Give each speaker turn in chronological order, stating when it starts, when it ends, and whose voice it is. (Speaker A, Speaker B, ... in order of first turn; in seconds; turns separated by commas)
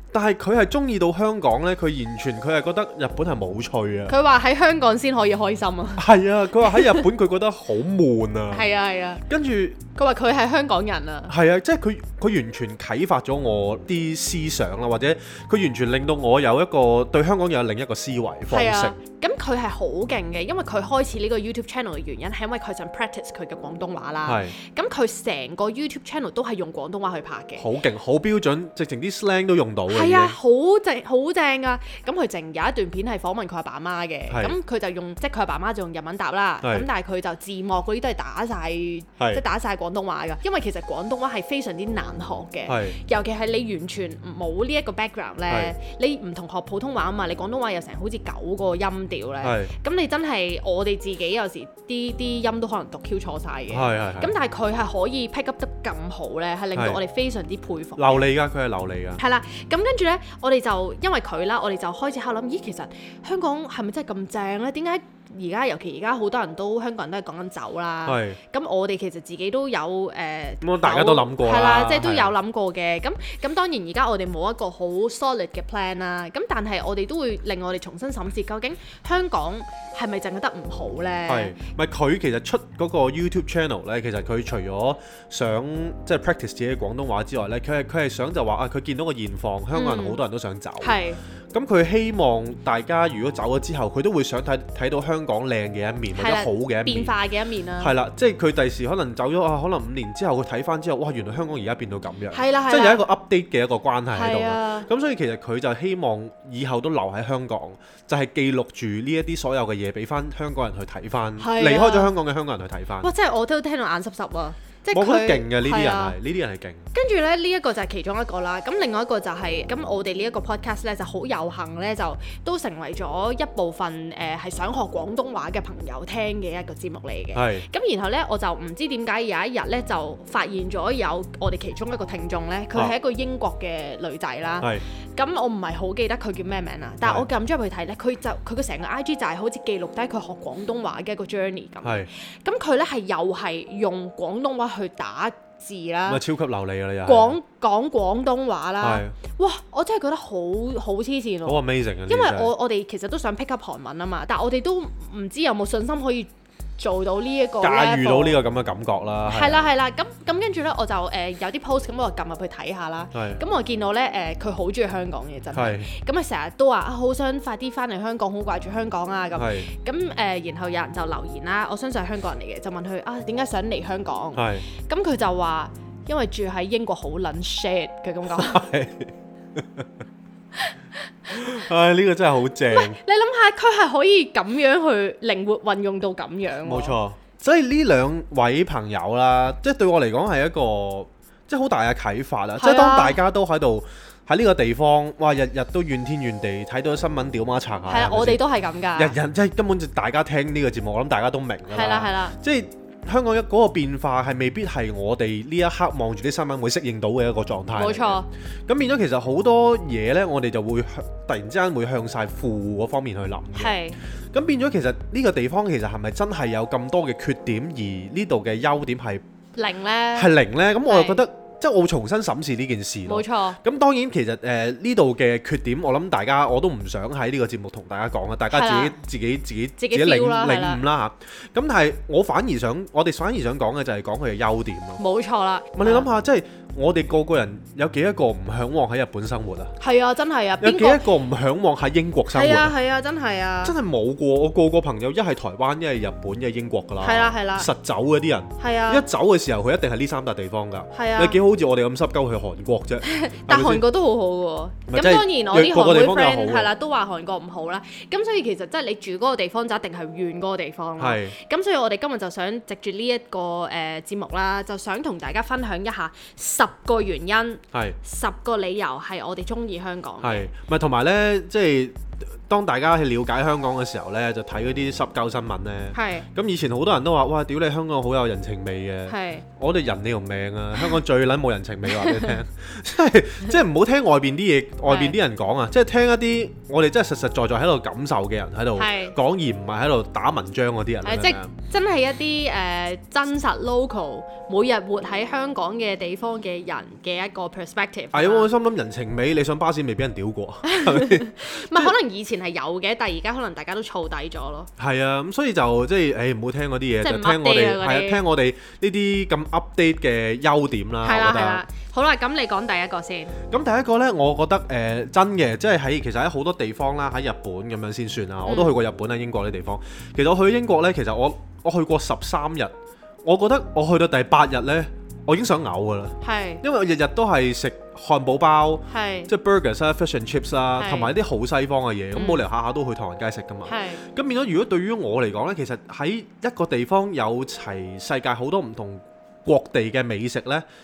Speaker A: 0.1-4.2, Speaker B: 4.1-6.0, Speaker A: 6.0-8.7, Speaker B: 6.6-7.1, Speaker B: 8.5-9.2, Speaker A: 9.3-9.8, Speaker B: 9.9-11.3, Speaker A: 11.3-19.0, Speaker B: 18.5-27.6, Speaker A: 24.2-24.5, Speaker A: 27.6-30.4, Speaker B: 29.9-58.3, Speaker A: 34.3-34.5, Speaker A: 36.6-36.9, Speaker A: 42.7-43.0, Speaker A: 49.4-49.7, Speaker A: 53.7-54.3, Speaker A: 56.7-57.0, Speaker A: 58.0-59.2, Speaker B: 59.2-81.6, Speaker A: 68.0-68.4, Speaker A: 70.6-72.3, Speaker A: 81.3-91.0, Speaker B: 89.7-90.2, Speaker B: 90.8-91.2, Speaker A: 91.5-97.1, Speaker B: 96.1-97.9, Speaker A: 97.8-113.1, Speaker B: 102.3-103.0, Speaker B: 104.1-104.9, Speaker B: 111.4-112.1, Speaker B: 113.0-116.2, Speaker A: 114.9-116.9, Speaker B: 116.9-146.2, Speaker A: 127.3-127.7, Speaker A: 141.8-142.1, Speaker A: 146.1-147.4, Speaker B: 147.0-158.4, Speaker A: 148.8-149.2, Speaker A: 151.4-152.5, Speaker A: 157.6-159.7, Speaker B: 159.2-178.6, Speaker A: 163.1-163.4, Speaker A: 165.5-165.9, Speaker A: 169.3-169.7, Speaker A: 174.3-174.7, Speaker A: 178.3-179.8, Speaker A: 181.3-183.0, Speaker B: 182.7-187.0, Speaker A: 186.6-198.4, Speaker B: 192.6-193.2, Speaker B: 197.9-199.2, Speaker A: 198.9-213.8, Speaker B: 201.7-202.4, Speaker B: 207.7-208.3, Speaker B: 213.6-214.0, Speaker A: 214.3-219.2, Speaker B: 219.6-220.3, Speaker A: 220.1-235.0, Speaker B: 220.8-221.2, Speaker B: 223.1-223.6, Speaker B: 228.5-228.9, Speaker B: 229.8-230.8, Speaker B: 235.0-236.1, Speaker A: 235.8-239.7, Speaker B: 239.8-241.0, Speaker A: 240.6-242.7, Speaker B: 242.3-243.7, Speaker A: 243.6-253.8, Speaker B: 247.0-247.7, Speaker B: 248.6-249.1, Speaker B: 250.9-251.4, Speaker B: 253.0-270.5, Speaker A: 254.9-256.7, Speaker A: 261.0-261.4, Speaker A: 270.2-291.5, Speaker B: 275.9-276.3, Speaker B: 279.1-279.4, Speaker B: 281.9-282.4, Speaker B: 284.9-285.2, Speaker B: 288.8-289.1, Speaker B: 291.0-298.5, Speaker A: 298.1-301.9, Speaker B: 300.6-304.7, Speaker A: 304.8-311.6, Speaker B: 307.0-308.2, Speaker B: 311.0-313.3, Speaker A: 313.5-322.7, Speaker B: 318.4-318.8, Speaker A: 323.2-340.6, Speaker B: 326.2-326.6, Speaker B: 328.9-329.3, Speaker B: 330.8-331.1, Speaker B: 332.1-332.4, Speaker B: 333.6-334.0